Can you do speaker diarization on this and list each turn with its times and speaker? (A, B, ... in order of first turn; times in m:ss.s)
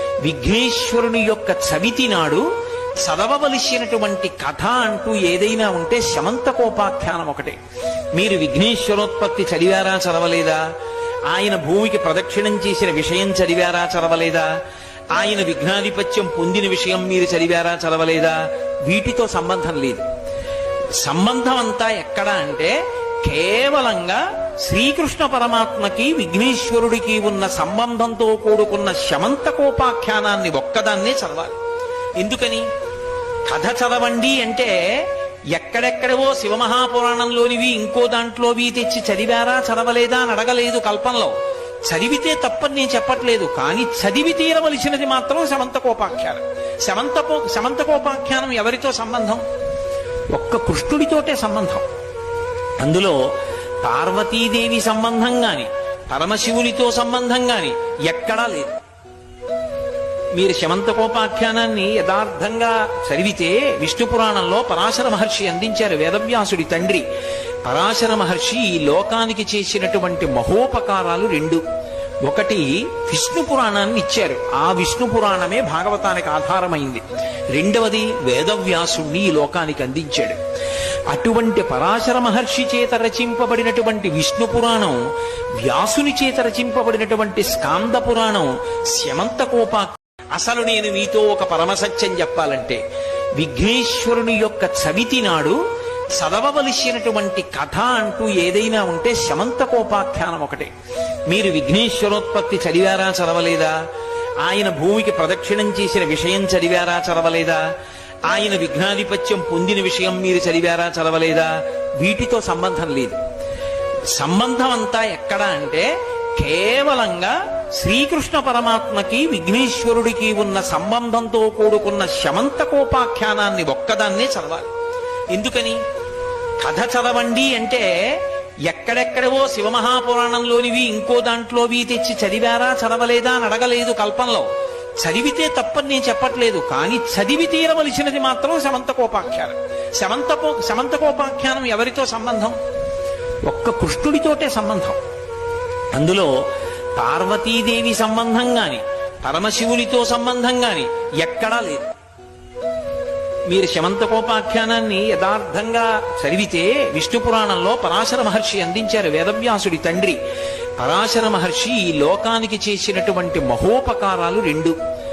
0:00.2-0:02.4 A
0:03.0-0:07.6 A
0:08.2-0:10.6 A
0:11.3-0:14.5 A
0:15.1-0:20.0 A
0:21.0-0:31.6 A
0:32.2-0:32.6 A
0:33.5-0:41.3 A
0:41.8-0:49.4 A
0:50.3-0:51.8 A
0:52.8-0:53.2 A
0:53.8-0:58.8 A
1:00.3-1:07.0 A
1:07.6-1:11.6 A
1:12.2-1:20.4 A
1:21.1-1:25.0 A
1:25.6-1:32.8 A
1:33.4-1:35.6 A
1:36.2-1:40.7 A
1:41.3-1:43.8 A
1:44.4-1:47.6 A
1:48.3-1:53.2 A
1:54.1-2:04.7 A
2:05.3-2:05.8 A
2:06.6-2:14.4 A
2:15.0-2:22.6 A
2:23.4-2:25.0 A
2:25.9-2:26.3 A
2:27.0-2:31.9 A
2:33.5-2:40.2 A
2:40.8-2:44.7 A